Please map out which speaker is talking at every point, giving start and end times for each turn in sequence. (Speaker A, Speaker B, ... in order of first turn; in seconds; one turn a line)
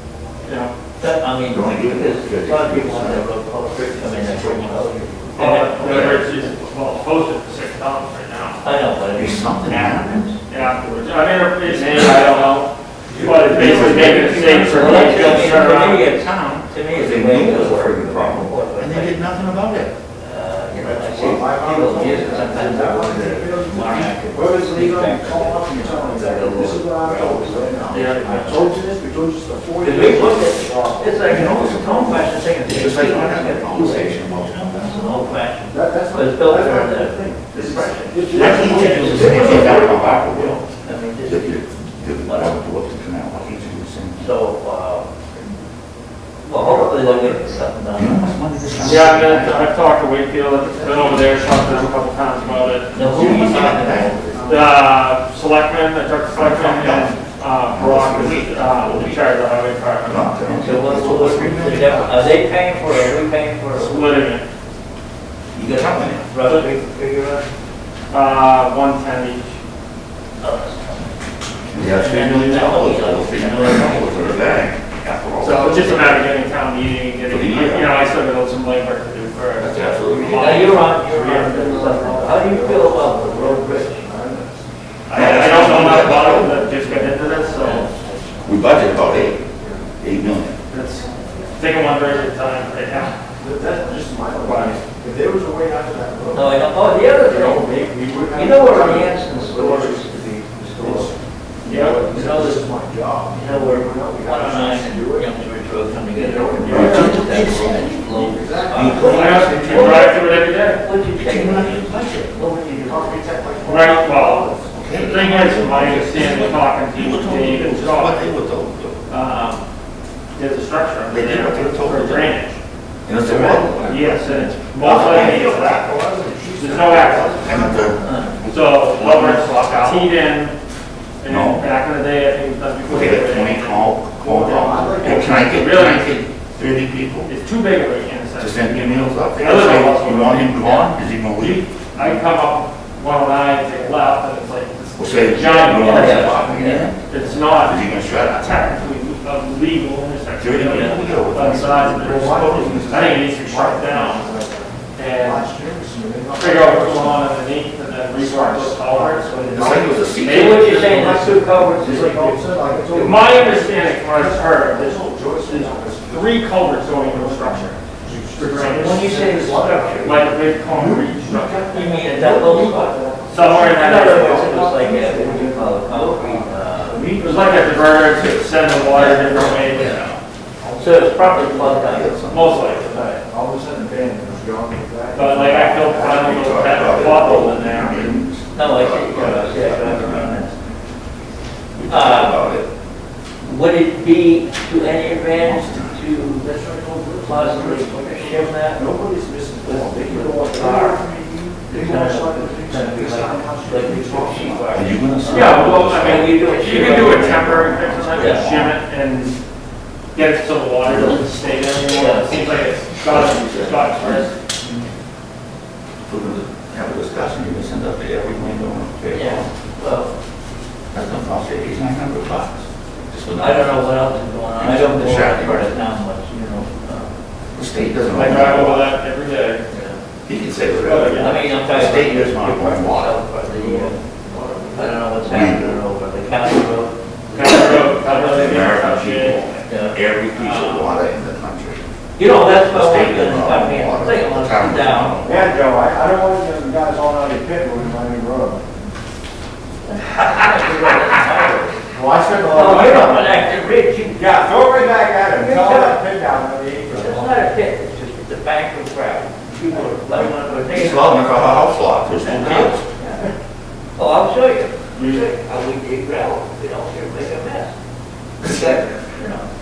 Speaker A: 0.5-0.7
Speaker B: 1.0-6.2
Speaker C: 1.5-3.3
Speaker D: 4.1-5.2
Speaker C: 4.4-4.7
Speaker A: 5.4-8.6
Speaker C: 5.6-6.2
Speaker B: 8.6-10.4
Speaker C: 9.1-10.3
Speaker A: 10.5-12.7
Speaker C: 11.7-12.3
Speaker D: 13.1-14.7
Speaker C: 13.2-19.9
Speaker A: 13.2-16.1
Speaker B: 13.7-19.3
Speaker B: 20.2-28.8
Speaker D: 20.8-31.4
Speaker A: 27.9-28.2
Speaker B: 29.8-41.6
Speaker C: 31.3-35.2
Speaker D: 35.7-40.6
Speaker C: 38.2-40.6
Speaker A: 38.4-38.8
Speaker C: 41.2-44.3
Speaker B: 42.2-42.6
Speaker B: 44.2-45.1
Speaker B: 46.4-48.3
Speaker D: 46.5-47.6
Speaker C: 47.9-49.7
Speaker A: 48.8-53.0
Speaker D: 50.6-51.9
Speaker C: 52.9-54.5
Speaker B: 52.9-54.2
Speaker D: 54.0-54.8
Speaker A: 54.5-60.3
Speaker C: 56.3-59.2
Speaker C: 60.0-62.3
Speaker B: 60.6-64.3
Speaker A: 63.7-64.5
Speaker C: 65.5-66.4
Speaker B: 66.1-67.5
Speaker A: 68.1-69.5
Speaker B: 70.4-71.2
Speaker C: 71.7-76.3
Speaker B: 71.8-74.5
Speaker A: 75.4-81.0
Speaker C: 77.2-77.9
Speaker C: 79.6-80.8
Speaker B: 80.3-84.1
Speaker D: 81.0-84.7
Speaker A: 85.1-87.9
Speaker C: 85.1-86.6
Speaker D: 86.5-88.8
Speaker B: 87.6-87.9
Speaker C: 88.5-89.4
Speaker D: 89.5-89.9
Speaker C: 90.0-90.6
Speaker A: 90.7-93.1
Speaker D: 93.4-105.3
Speaker A: 94.4-94.8
Speaker B: 96.3-101.2
Speaker A: 101.6-102.0
Speaker B: 102.0-102.7
Speaker B: 103.3-113.2
Speaker D: 106.1-107.2
Speaker A: 106.6-107.0
Speaker C: 106.7-108.2
Speaker D: 108.1-109.6
Speaker C: 108.8-110.2
Speaker A: 109.0-110.8
Speaker C: 111.2-112.4
Speaker D: 112.8-114.8
Speaker A: 113.6-118.3
Speaker C: 114.7-119.0
Speaker A: 119.1-119.6
Speaker A: 120.3-122.6
Speaker C: 121.1-122.4
Speaker C: 123.0-125.6
Speaker A: 123.2-125.9
Speaker B: 123.3-123.7
Speaker D: 124.8-128.5
Speaker A: 126.6-127.4
Speaker C: 127.3-130.2
Speaker B: 128.0-128.3
Speaker A: 128.5-130.6
Speaker A: 131.2-136.2
Speaker C: 131.2-131.7
Speaker C: 132.8-137.3
Speaker D: 134.4-135.6
Speaker A: 137.2-146.5
Speaker C: 138.4-141.7
Speaker C: 145.0-148.8
Speaker B: 145.6-146.9
Speaker A: 147.1-154.3
Speaker C: 150.4-153.0
Speaker D: 152.0-157.3
Speaker A: 154.9-155.5
Speaker A: 156.3-161.2
Speaker D: 158.1-160.1
Speaker C: 159.5-160.8
Speaker B: 160.2-163.2
Speaker D: 160.7-178.3
Speaker A: 162.9-167.8
Speaker A: 168.3-169.0
Speaker B: 168.7-170.2
Speaker A: 170.0-171.7
Speaker B: 171.7-177.1
Speaker A: 173.2-174.6
Speaker A: 177.2-179.9
Speaker C: 178.9-180.2
Speaker B: 178.9-179.6
Speaker D: 180.6-181.8
Speaker B: 180.8-182.2
Speaker C: 181.5-183.0
Speaker A: 182.3-182.9
Speaker B: 182.9-183.2
Speaker D: 183.1-187.3
Speaker A: 185.1-188.1
Speaker C: 186.0-190.5
Speaker B: 188.5-190.5
Speaker C: 191.7-192.7
Speaker B: 191.9-192.4
Speaker B: 193.4-196.5
Speaker C: 195.3-196.0
Speaker D: 196.3-204.7
Speaker B: 197.2-198.8
Speaker C: 199.7-200.4
Speaker B: 199.7-201.1
Speaker B: 201.7-207.6
Speaker C: 204.7-208.8
Speaker A: 205.2-209.3
Speaker B: 208.1-208.7
Speaker A: 210.1-214.3
Speaker C: 210.8-214.8
Speaker B: 211.9-212.5
Speaker C: 216.1-219.5
Speaker B: 219.1-220.1
Speaker C: 220.9-225.8
Speaker B: 223.4-227.1
Speaker C: 227.5-228.9
Speaker A: 228.1-229.6
Speaker B: 229.7-230.0
Speaker C: 230.2-234.0
Speaker A: 230.8-231.4
Speaker B: 231.1-234.0
Speaker D: 234.2-235.0
Speaker B: 234.7-238.6
Speaker C: 235.2-235.8
Speaker A: 237.3-239.6
Speaker C: 238.1-245.5
Speaker B: 239.7-240.9
Speaker B: 242.2-245.5
Speaker D: 245.2-248.7
Speaker B: 249.8-254.2
Speaker D: 251.9-253.5
Speaker D: 254.0-257.4
Speaker B: 255.3-256.0
Speaker B: 256.9-261.6
Speaker C: 260.7-262.8
Speaker B: 262.2-263.3
Speaker B: 263.9-267.7
Speaker D: 264.9-265.2
Speaker B: 268.4-269.5
Speaker D: 268.4-268.8